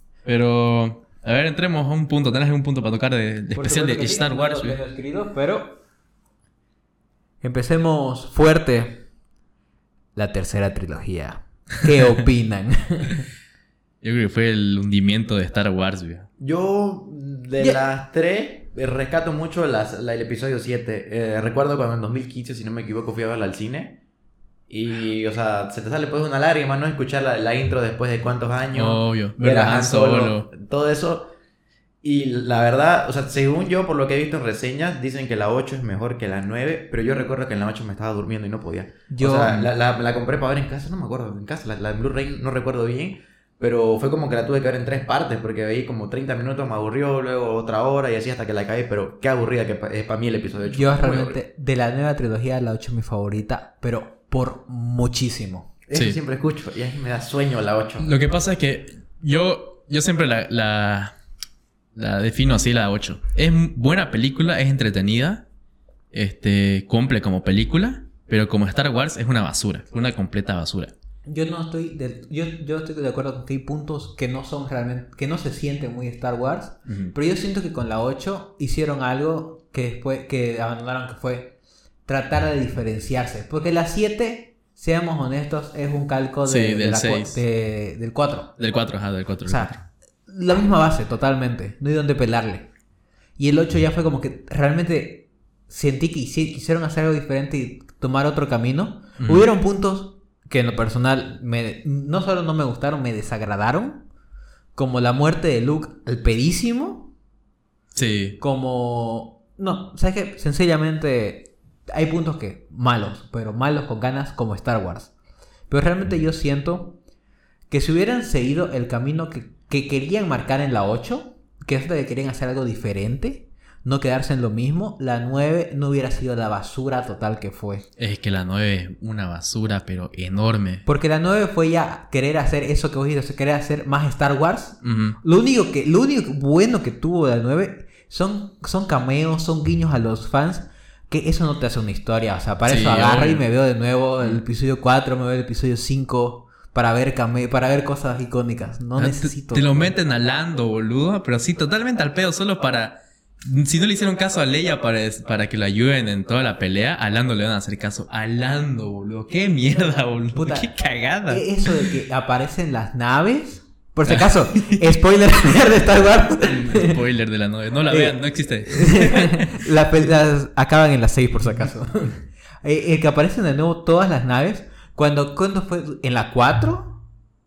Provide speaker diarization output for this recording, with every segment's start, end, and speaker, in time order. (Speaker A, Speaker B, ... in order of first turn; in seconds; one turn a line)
Speaker A: 0.2-4.8
Speaker B: 3.5-5.8
Speaker B: 7.4-9.1
Speaker B: 10.1-13.3
Speaker A: 14.0-16.3
Speaker C: 16.4-24.0
Speaker C: 24.7-31.3
Speaker A: 28.7-30.5
Speaker C: 32.0-51.4
Speaker B: 39.1-39.7
Speaker B: 50.7-55.7
Speaker C: 55.9-58.1
Speaker A: 58.0-61.1
Speaker A: 61.9-65.4
Speaker A: 66.1-70.9
Speaker B: 71.2-88.6
Speaker A: 76.9-77.1
Speaker A: 86.4-87.4
Speaker A: 88.6-89.8
Speaker B: 89.4-92.7
Speaker B: 93.4-104.1
Speaker A: 99.2-99.5
Speaker B: 104.7-107.1
Speaker A: 107.9-108.4
Speaker B: 108.4-115.1
Speaker B: 115.7-117.0
Speaker B: 117.7-127.9
Speaker A: 128.0-130.8
Speaker B: 130.8-149.9
Speaker A: 134.8-135.2
Speaker A: 142.6-143.4
Speaker A: 149.0-161.9
Speaker B: 160.3-160.7
Speaker B: 161.3-167.0
Speaker A: 164.1-164.8
Speaker A: 166.4-169.6
Speaker B: 167.9-177.0